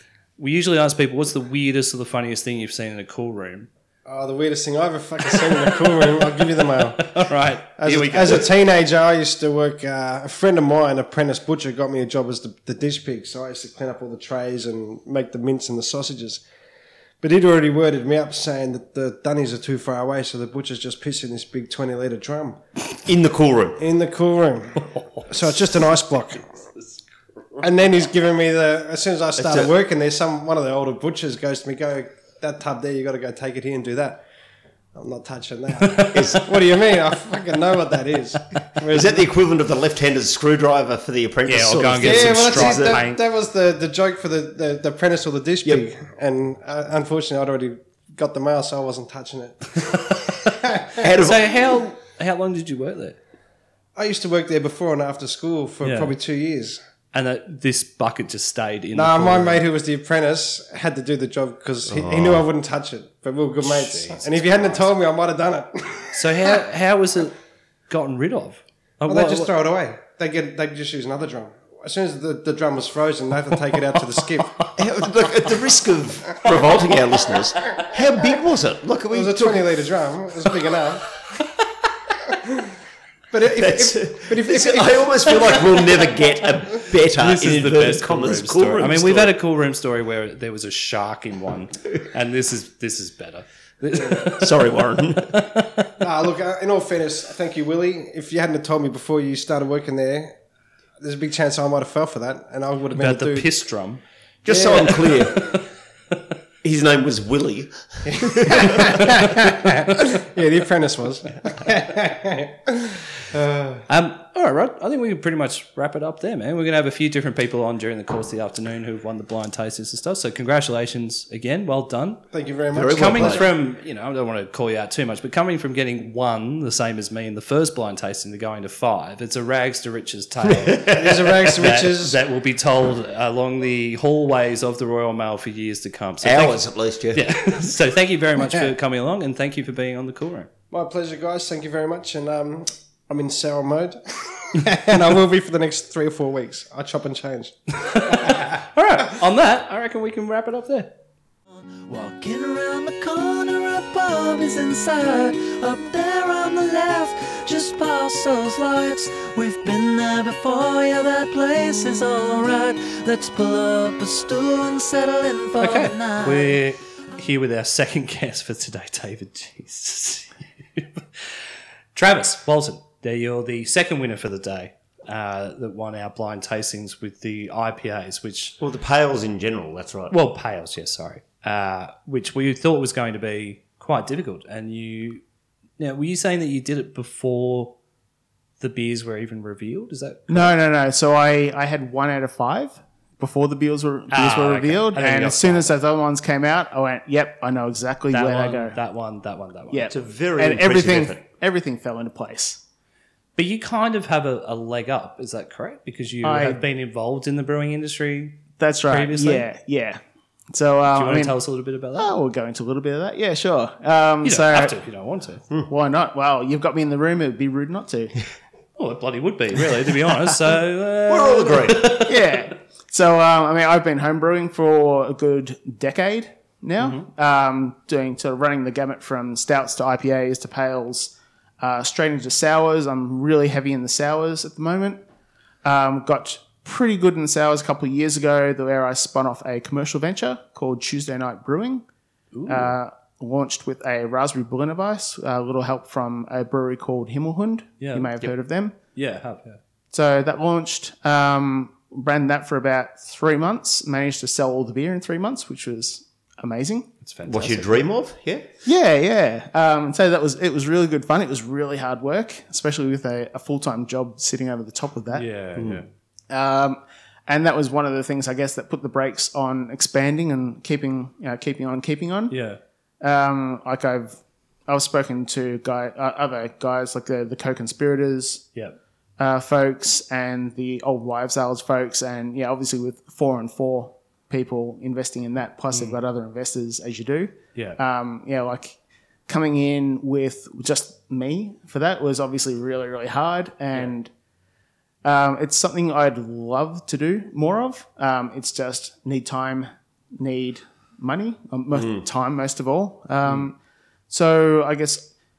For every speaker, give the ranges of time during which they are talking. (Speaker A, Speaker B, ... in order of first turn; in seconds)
Speaker A: 0.4-3.7, 5.3-8.5, 24.8-25.6, 35.8-36.4, 41.5-43.2, 50.2-50.5, 51.1-53.2, 55.8-56.1, 57.1-59.6, 63.6-64.9, 66.1-67.4, 67.9-69.5, 87.1-95.9, 102.9-104.0, 105.1-105.6, 108.8-109.2, 113.9-122.2, 122.9-140.5, 147.8-150.9, 165.6-171.4, 171.9-178.6, 180.1-185.2, 185.8-187.8, 188.6-190.6, 194.1-195.8, 198.1-199.9, 203.4-209.5, 210.9-212.2, 214.2-215.4, 218.8-222.4, 226.8-227.1, 242.3-242.8, 247.8-248.3, 248.9-249.6, 257.0-257.9, 265.1-265.9, 272.3-272.6, 285.7-286.0, 287.6-287.8
Speaker B: 4.1-16.4, 17.2-22.6, 23.8-26.5, 27.6-34.2, 35.0-39.3, 42.0-51.1, 54.0-56.8, 59.0-66.6, 69.1-74.7, 79.1-81.2, 83.3-85.8, 96.0-100.3, 101.0-103.5, 104.5-105.1, 108.1-113.8, 122.3-123.5, 130.9-132.2, 140.7-148.4
Speaker C: 23.1-23.8, 29.4-29.7, 36.1-36.6, 38.9-43.0, 51.0-51.5, 61.9-62.5, 74.8-79.8, 83.5-89.4, 94.2-95.5, 104.5-105.5, 106.6-109.2, 122.7-123.5, 130.4-131.7, 136.2-137.3, 178.6-180.2, 199.9-201.2, 221.1-222.0, 257.2-258.5, 265.6-265.8, 301.7-302.1
Speaker D: 151.9-166.6
Speaker E: 190.3-198.8, 199.7-202.6, 206.2-206.6, 208.6-210.0, 210.5-211.4, 211.9-214.8, 215.7-218.2, 222.0-235.0, 235.6-241.8, 242.5-248.8, 249.9-256.9, 258.6-265.3, 266.3-272.4, 273.0-278.5, 279.2-294.1, 295.0-303.6, 304.1-305.1